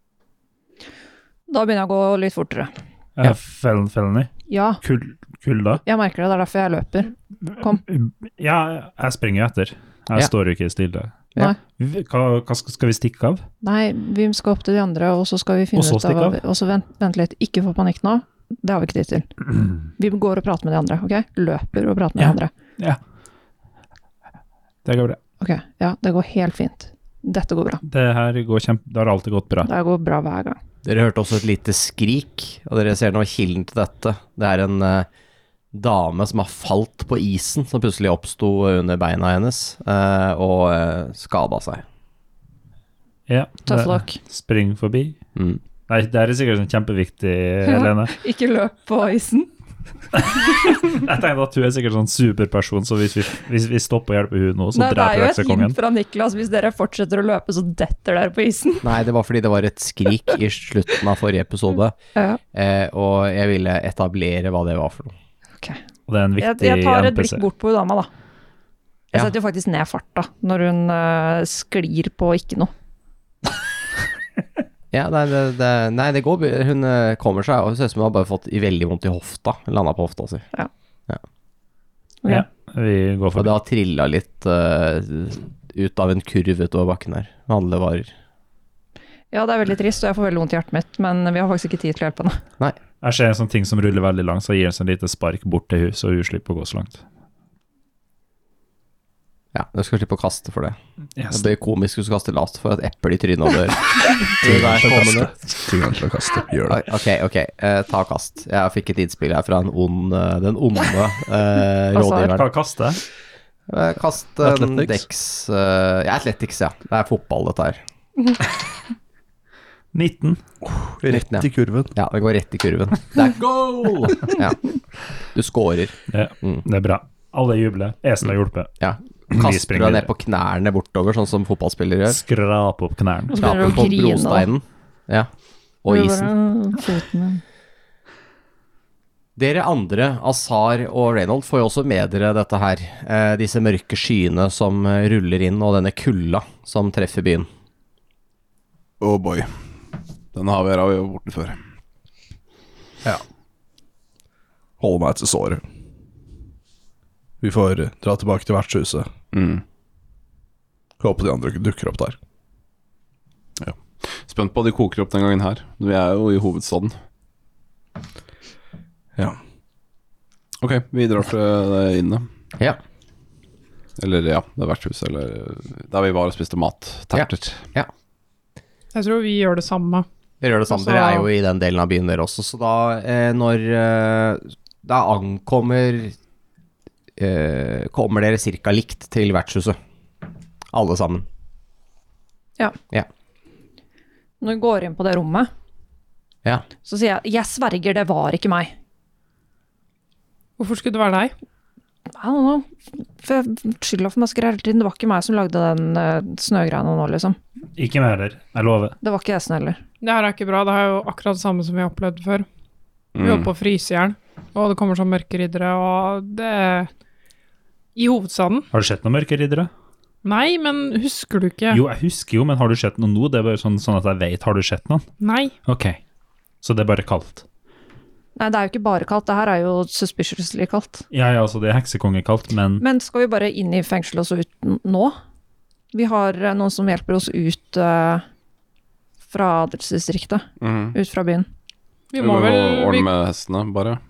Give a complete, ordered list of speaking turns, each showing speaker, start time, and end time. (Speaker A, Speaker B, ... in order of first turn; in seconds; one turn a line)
Speaker A: 1.5-2.7
Speaker B: 3.2-4.3
Speaker A: 4.5-4.8
Speaker B: 4.8-5.8
Speaker A: 5.8-7.8
Speaker B: 7.5-11.1
Speaker B: 11.8-13.4
Speaker A: 13.6-22.5
Speaker B: 15.8-16.4
Speaker B: 22.2-23.0
Speaker B: 24.8-25.2
Speaker A: 25.4-27.8
Speaker B: 27.8-29.7
Speaker A: 29.6-30.6
Speaker C: 30.8-35.1
Speaker C: 35.7-41.8
Speaker B: 43.3-45.2
Speaker A: 43.7-44.2
Speaker C: 45.4-45.6
Speaker B: 45.9-48.1
Speaker A: 47.6-49.5
Speaker B: 50.2-55.8
Speaker A: 54.7-58.9
Speaker C: 58.8-61.9
Speaker A: 62.1-62.4
Speaker C: 62.5-65.1
Speaker B: 66.1-67.4
Speaker A: 66.4-68.1
Speaker A: 69.1-72.7
Speaker C: 74.9-80.5
Speaker B: 82.3-83.5
Speaker C: 83.3-88.1
Speaker A: 89.3-92.4
Speaker B: 93.0-97.0
Speaker C: 99.5-100.8
Speaker B: 101.2-101.5
Speaker C: 101.3-105.4
Speaker D: 104.4-106.9
Speaker C: 106.7-112.5
Speaker A: 111.9-112.3
Speaker B: 112.2-113.0
Speaker C: 113.7-117.8
Speaker D: 114.4-115.0
Speaker B: 119.9-120.4
Speaker D: 120.7-121.9
Speaker C: 121.0-124.6
Speaker C: 125.3-126.6
Speaker B: 126.1-128.7
Speaker C: 128.8-132.2
Speaker B: 129.3-130.1
Speaker B: 132.1-133.5
Speaker A: 133.3-134.5
Speaker C: 133.4-135.3
Speaker C: 135.8-136.3
Speaker A: 135.9-137.4
Speaker C: 139.3-147.5
Speaker E: 149.0-149.5
Speaker E: 150.3-151.6
Speaker D: 154.8-155.6
Speaker D: 157.4-159.1
Speaker E: 159.3-159.6
Speaker D: 161.0-162.2
Speaker E: 163.6-166.9
Speaker E: 170.6-172.3
Speaker E: 174.0-177.6
Speaker C: 177.1-177.9
Speaker F: 178.9-180.1
Speaker C: 180.4-186.1
Speaker F: 180.7-181.3
Speaker C: 187.2-189.8
Speaker C: 190.7-191.2
Speaker A: 194.4-195.5
Speaker A: 196.8-198.7
Speaker F: 200.6-201.3
Speaker A: 202.1-207.4
Speaker B: 207.8-208.9
Speaker A: 209.0-209.8
Speaker F: 210.0-212.4
Speaker E: 213.2-213.5
Speaker F: 213.2-216.9
Speaker F: 217.9-218.7
Speaker B: 218.7-219.7
Speaker F: 220.2-221.8
Speaker B: 221.7-225.1
Speaker F: 225.2-225.5
Speaker B: 225.7-226.0
Speaker B: 226.6-227.4
Speaker A: 228.4-231.0
Speaker B: 231.1-232.8
Speaker A: 232.8-235.2
Speaker A: 235.9-238.2
Speaker A: 239.3-241.5
Speaker E: 240.6-241.0
Speaker F: 242.1-243.1
Speaker E: 242.2-244.0